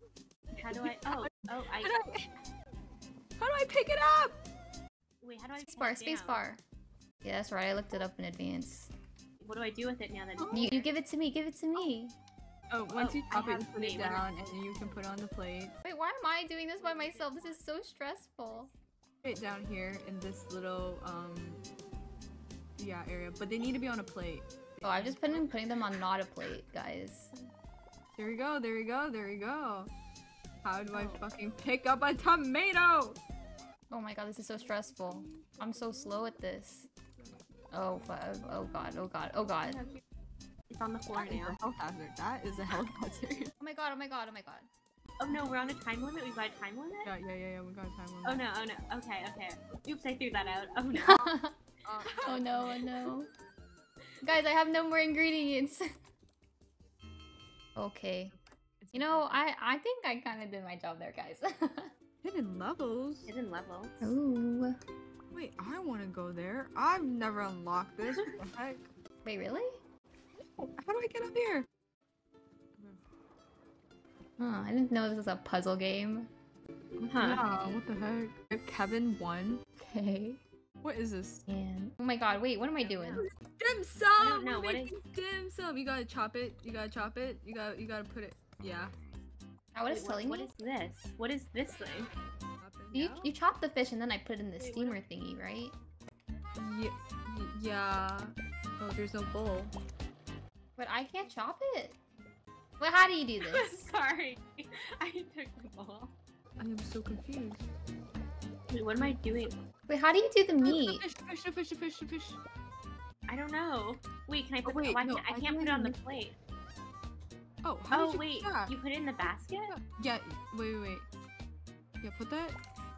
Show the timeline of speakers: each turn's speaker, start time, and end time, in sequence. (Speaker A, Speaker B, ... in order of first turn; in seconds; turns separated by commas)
Speaker A: 0.5-2.0, Speaker B: 0.7-2.3, Speaker B: 3.4-4.4, Speaker A: 5.2-6.5, Speaker C: 5.6-6.6, Speaker C: 7.2-8.9, Speaker A: 9.4-10.9, Speaker B: 10.4-10.7, Speaker C: 10.5-12.2, Speaker B: 12.7-15.8, Speaker A: 12.9-14.3, Speaker C: 15.8-18.7, Speaker A: 16.8-17.6, Speaker A: 18.4-18.8, Speaker B: 19.2-21.6, Speaker B: 22.8-25.6, Speaker C: 24.8-27.3, Speaker B: 28.2-29.9, Speaker B: 30.6-33.2, Speaker A: 30.9-31.2, Speaker C: 33.9-36.9, Speaker B: 34.4-36.4, Speaker C: 37.7-39.8, Speaker A: 39.6-40.0, Speaker A: 40.7-41.6, Speaker B: 41.1-43.5, Speaker C: 43.6-44.7, Speaker A: 45.2-47.1, Speaker B: 47.0-48.5, Speaker A: 48.2-51.2, Speaker C: 50.9-51.6, Speaker B: 51.1-52.9, Speaker A: 52.0-53.1, Speaker C: 52.2-53.3, Speaker C: 54.2-55.8, Speaker C: 57.8-58.3, Speaker B: 58.3-59.4, Speaker C: 58.9-61.9, Speaker B: 62.2-63.3, Speaker A: 63.3-64.2, Speaker C: 64.0-64.8, Speaker B: 65.3-68.9, Speaker C: 69.2-69.8, Speaker B: 70.6-71.7, Speaker C: 74.4-76.3, Speaker A: 77.0-77.4, Speaker B: 77.1-79.6, Speaker C: 79.8-80.4, Speaker B: 80.8-81.5, Speaker C: 81.5-83.2, Speaker A: 82.8-83.3, Speaker B: 83.1-88.9, Speaker A: 84.2-85.0, Speaker C: 89.7-90.5, Speaker A: 89.8-92.1, Speaker B: 92.6-93.3, Speaker C: 92.9-95.8, Speaker A: 94.6-95.0, Speaker B: 96.6-99.7, Speaker C: 100.8-102.0, Speaker C: 102.8-103.9, Speaker A: 103.4-106.1, Speaker B: 106.6-107.6, Speaker A: 108.7-109.5, Speaker C: 109.9-111.0, Speaker B: 110.6-112.4, Speaker A: 113.3-116.3, Speaker B: 114.6-116.0, Speaker B: 117.6-121.1, Speaker A: 117.9-119.7, Speaker B: 122.0-122.6